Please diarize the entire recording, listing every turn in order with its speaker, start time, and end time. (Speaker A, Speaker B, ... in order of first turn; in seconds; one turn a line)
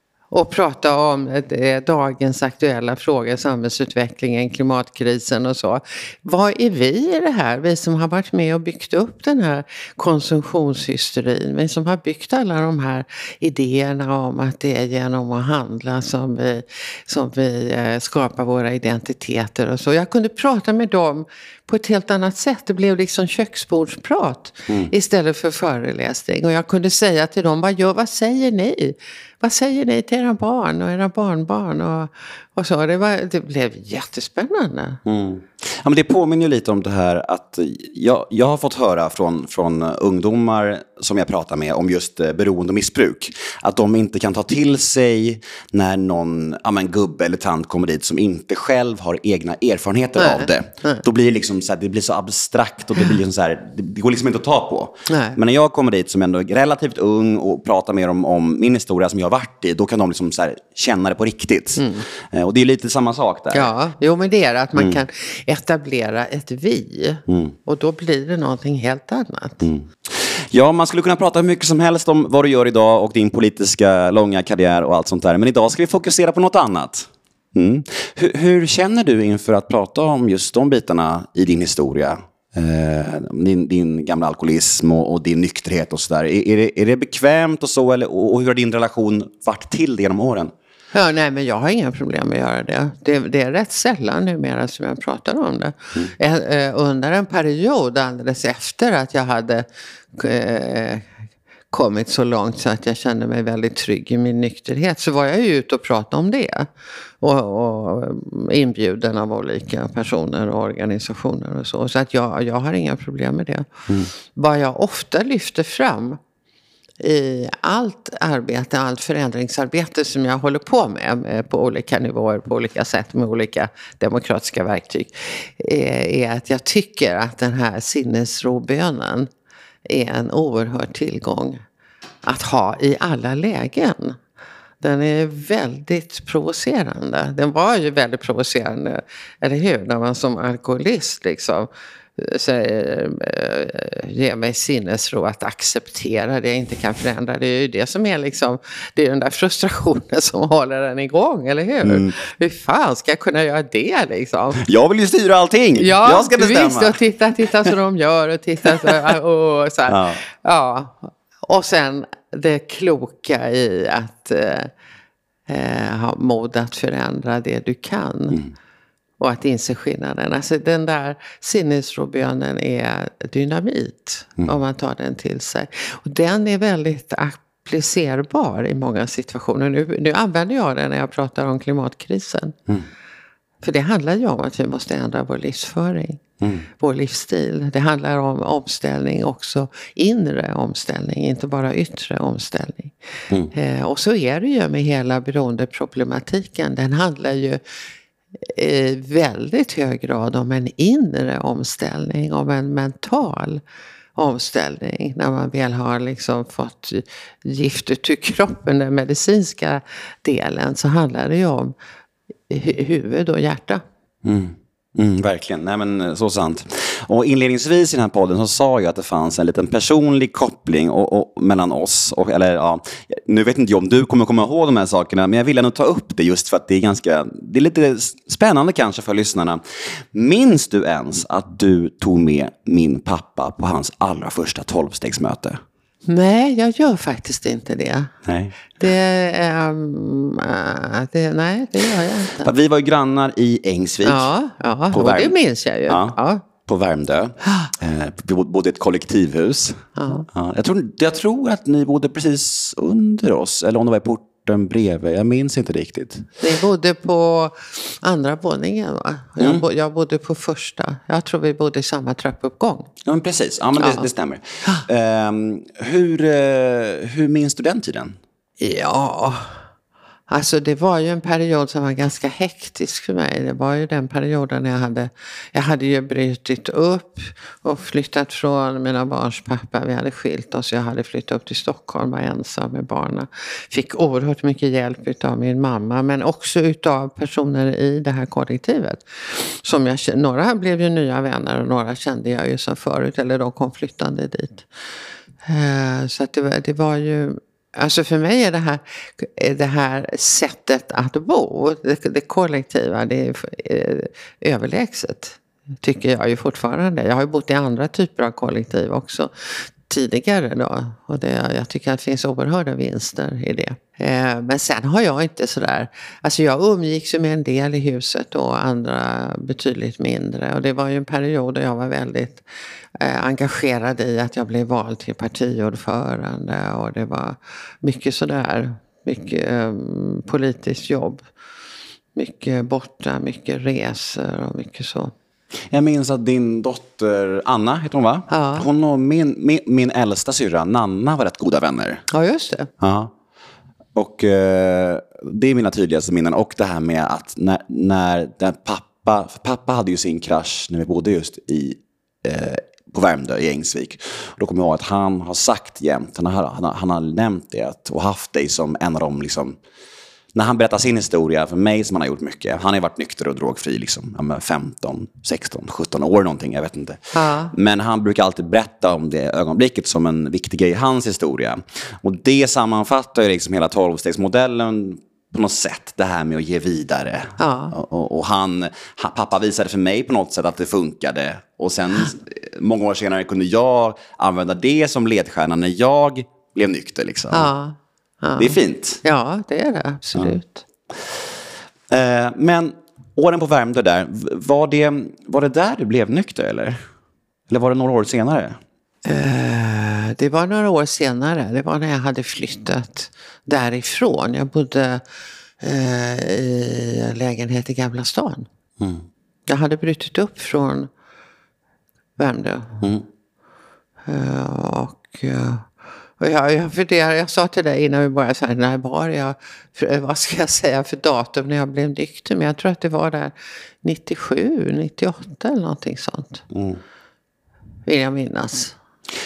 Speaker A: 0.3-35.0
Speaker B: 35.0-63.7
Speaker A: 50.2-51.0
Speaker A: 55.1-55.4
Speaker A: 61.8-62.0
Speaker A: 63.5-69.6
Speaker B: 64.7-65.0
Speaker B: 67.3-67.5
Speaker B: 69.6-90.5
Speaker A: 90.9-101.1
Speaker A: 101.7-106.7
Speaker A: 107.2-113.7
Speaker A: 114.2-116.2
Speaker A: 117.0-129.3
Speaker A: 129.8-131.6
Speaker A: 132.2-134.2
Speaker A: 134.8-154.6
Speaker B: 151.8-152.1
Speaker B: 154.6-157.0
Speaker A: 155.8-164.7
Speaker B: 159.9-160.2
Speaker A: 165.5-168.4
Speaker A: 169.2-182.6
Speaker A: 183.6-186.2
Speaker B: 186.4-186.7
Speaker A: 186.8-192.9
Speaker A: 193.5-197.6
Speaker A: 198.4-203.6
Speaker A: 204.2-211.7
Speaker A: 212.5-213.8
Speaker B: 214.2-235.6
Speaker A: 236.1-238.1
Speaker B: 238.2-238.6
Speaker A: 238.8-242.5
Speaker B: 242.4-244.3
Speaker A: 244.0-246.4
Speaker B: 244.9-245.3
Speaker B: 245.9-256.3
Speaker A: 249.9-250.2
Speaker A: 256.4-262.9
Speaker B: 259.4-259.6
Speaker B: 263.0-268.2
Speaker A: 263.8-264.1
Speaker A: 268.6-269.6
Speaker A: 270.3-294.7
Speaker A: 295.4-322.4
Speaker A: 323.0-331.2
Speaker A: 332.1-335.1
Speaker B: 335.7-342.0
Speaker A: 338.3-338.7
Speaker A: 342.1-342.7
Speaker B: 342.8-343.1
Speaker B: 343.9-359.6
Speaker B: 360.3-387.5
Speaker A: 367.1-367.5
Speaker A: 377.4-377.7
Speaker A: 387.3-390.6
Speaker B: 388.4-389.0
Speaker B: 391.9-396.8
Speaker B: 397.5-398.6
Speaker A: 399.0-405.0
Speaker A: 405.6-408.5
Speaker B: 408.8-409.0
Speaker A: 409.5-410.9
Speaker A: 412.2-412.8
Speaker A: 414.1-415.7
Speaker A: 416.2-426.4
Speaker B: 426.5-426.8
Speaker A: 427.9-428.8